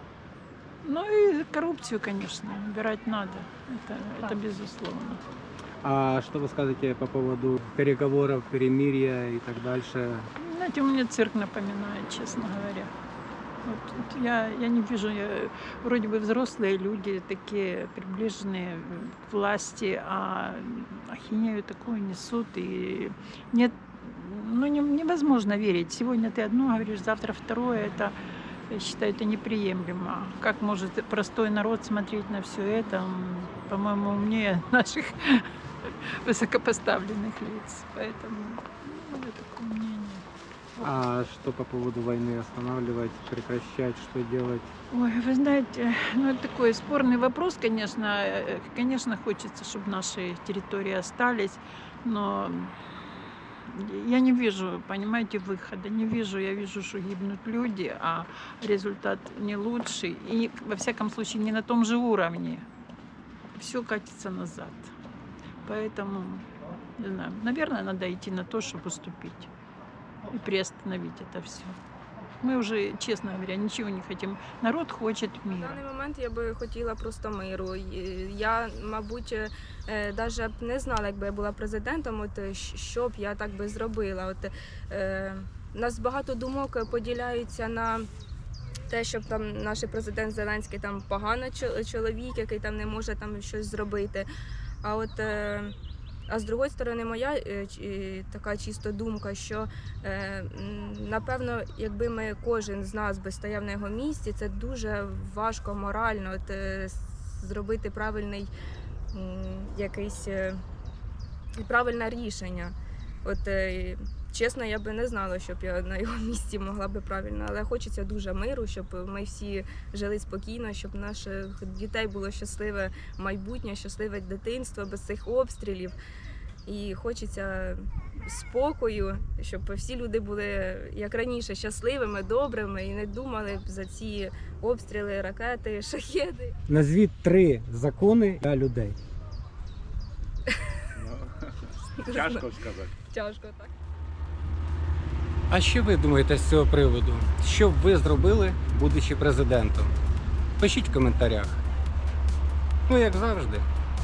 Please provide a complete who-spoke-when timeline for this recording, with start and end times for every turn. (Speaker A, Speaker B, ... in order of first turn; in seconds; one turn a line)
Speaker A: 0.8-5.2
Speaker B: 5.8-10.3
Speaker A: 10.4-12.9
Speaker A: 13.6-28.1
Speaker A: 28.7-40.2
Speaker B: 40.8-44.7
Speaker A: 44.9-52.7
Speaker A: 53.7-62.6
Speaker A: 63.5-64.9
Speaker A: 65.6-66.5
Speaker A: 67.0-69.5
Speaker A: 70.3-71.8
Speaker A: 72.4-75.8
Speaker C: 75.5-88.1
Speaker C: 88.9-94.3
Speaker C: 94.8-95.7
Speaker C: 96.3-108.5
Speaker C: 109.1-110.6
Speaker C: 111.6-126.0
Speaker C: 126.7-136.6
Speaker B: 136.7-139.0
Speaker C: 142.0-143.7
Speaker B: 145.5-149.9
Speaker B: 150.6-151.6
Speaker B: 152.9-153.7